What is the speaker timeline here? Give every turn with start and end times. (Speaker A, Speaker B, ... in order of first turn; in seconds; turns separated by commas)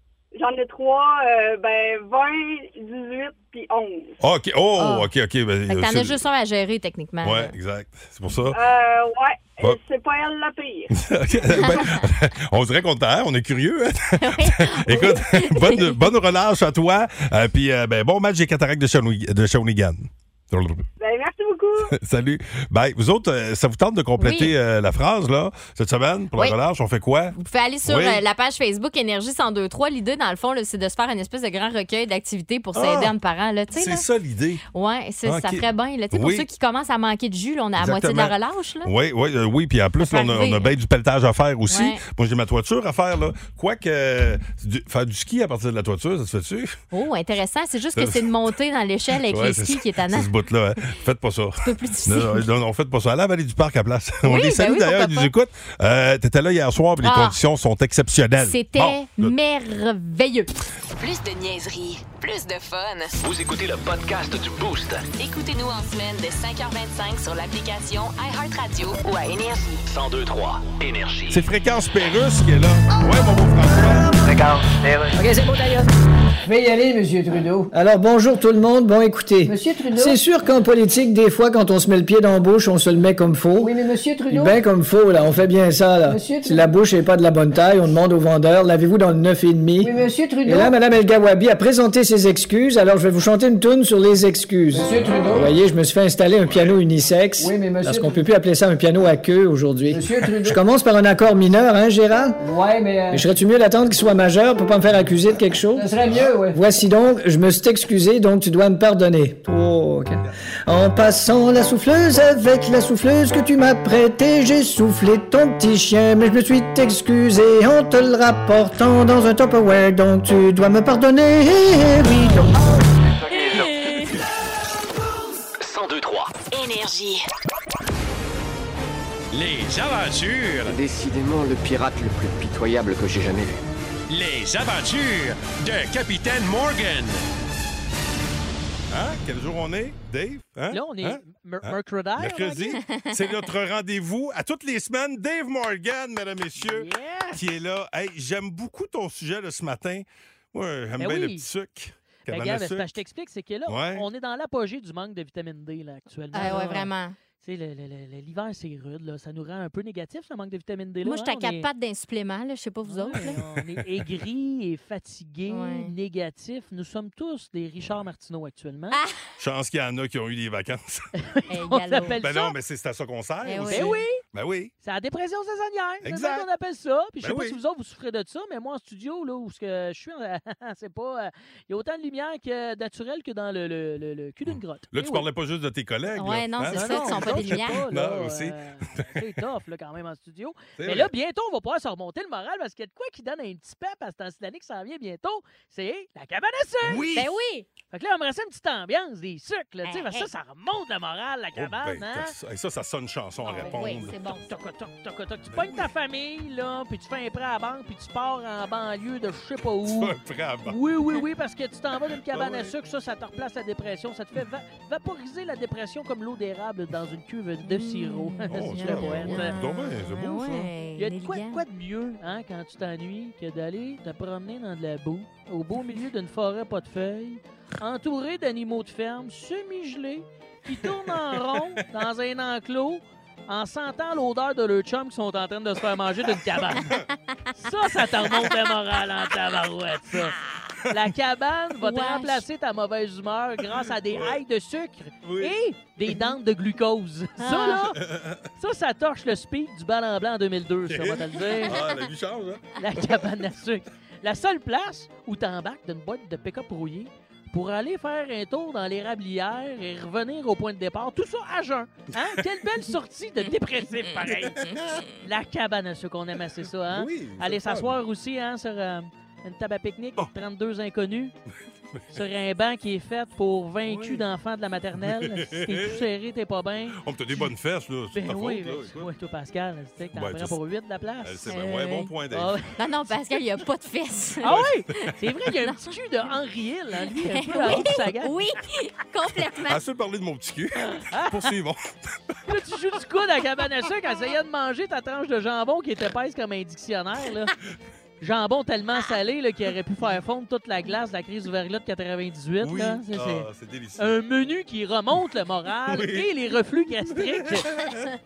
Speaker A: 0.3-4.2, Speaker B: 4.2-6.2, Speaker C: 4.8-5.1, Speaker C: 5.7-7.5, Speaker B: 7.2-8.6, Speaker A: 8.5-10.9, Speaker B: 10.9-20.9, Speaker C: 11.5-12.0, Speaker C: 14.2-16.0, Speaker A: 21.0-21.9, Speaker B: 21.9-27.3, Speaker C: 24.2-24.5, Speaker C: 27.4-34.1, Speaker B: 27.8-28.2, Speaker B: 32.7-33.1, Speaker B: 33.7-34.6, Speaker C: 34.7-38.9, Speaker B: 35.2-36.5, Speaker B: 37.8-46.8, Speaker C: 40.0-40.7, Speaker C: 41.7-42.0, Speaker C: 46.9-50.3, Speaker B: 48.0-48.3, Speaker B: 49.3-59.3, Speaker C: 51.6-52.5, Speaker C: 54.2-55.3, Speaker C: 57.0-57.4, Speaker C: 58.4-60.5, Speaker D: 61.0-63.1, Speaker E: 63.2-65.1, Speaker D: 65.1-69.8, Speaker E: 69.9-71.4, Speaker B: 71.3-74.1, Speaker F: 74.2-75.2, Speaker G: 76.4-77.7, Speaker H: 77.7-83.7, Speaker G: 79.4-80.2, Speaker G: 83.6-84.6, Speaker H: 84.3-102.4, Speaker G: 86.1-86.7, Speaker G: 89.8-90.7, Speaker G: 94.7-95.5, Speaker G: 97.4-98.2, Speaker G: 99.9-100.6, Speaker G: 102.4-103.2, Speaker H: 103.1-105.9, Speaker G: 105.7-106.6, Speaker H: 106.5-122.7, Speaker F: 123.0-124.1, Speaker C: 123.5-124.1, Speaker E: 125.6-126.3, Speaker D: 126.5-127.2, Speaker I: 129.3-130.8, Speaker F: 130.7-133.6, Speaker I: 134.1-137.2, Speaker B: 138.9-152.9, Speaker J: 140.7-142.8, Speaker C: 142.8-143.2, Speaker J: 146.6-147.4, Speaker J: 151.0-151.5, Speaker J: 152.2-156.9, Speaker B: 153.7-154.0, Speaker C: 156.3-157.1, Speaker J: 157.4-161.7, Speaker C: 161.0-163.4, Speaker J: 162.8-169.0, Speaker C: 165.5-165.9, Speaker C: 168.9-169.2, Speaker B: 169.4-171.1, Speaker J: 171.2-172.6, Speaker C: 171.5-172.2, Speaker B: 172.2-174.7, Speaker C: 173.4-174.0, Speaker J: 173.7-174.2, Speaker J: 174.8-185.3, Speaker B: 176.0-176.4, Speaker B: 177.2-177.6, Speaker B: 184.5-189.1, Speaker C: 186.1-187.8, Speaker J: 186.7-197.1, Speaker B: 190.8-191.1, Speaker B: 196.8-197.3, Speaker C: 197.1-197.7, Speaker J: 197.9-202.3, Speaker C: 199.8-200.3, Speaker B: 201.5-204.1, Speaker C: 203.4-204.6, Speaker J: 203.5-210.1, Speaker B: 205.5-205.9, Speaker B: 209.8-210.8, Speaker J: 210.7-219.6, Speaker B: 212.3-212.7, Speaker C: 217.7-221.6, Speaker B: 218.5-220.7, Speaker J: 221.0-237.0, Speaker J: 237.6-240.3, Speaker J: 240.9-248.0, Speaker C: 241.8-242.4, Speaker B: 244.1-244.4, Speaker B: 245.2-245.5, Speaker C: 247.4-247.8, Speaker B: 247.6-248.4, Speaker J: 248.6-251.8, Speaker B: 250.9-253.2, Speaker J: 252.8-264.7, Speaker J: 265.2-271.3, Speaker B: 266.9-268.0, Speaker J: 272.1-277.5, Speaker B: 273.8-274.2, Speaker B: 275.0-276.0, Speaker B: 277.0-279.1, Speaker J: 278.1-281.6, Speaker B: 280.1-280.5, Speaker B: 281.2-282.5, Speaker C: 281.5-282.1, Speaker J: 282.3-282.7, Speaker C: 282.8-285.0, Speaker J: 284.4-288.4, Speaker B: 284.4-284.8, Speaker C: 285.6-285.9, Speaker C: 287.2-289.8, Speaker B: 287.7-287.9, Speaker B: 289.6-291.9, Speaker J: 290.9-291.5, Speaker J: 292.5-297.5, Speaker J: 298.2-307.7, Speaker B: 302.6-304.1, Speaker B: 305.9-306.3, Speaker B: 307.1-308.1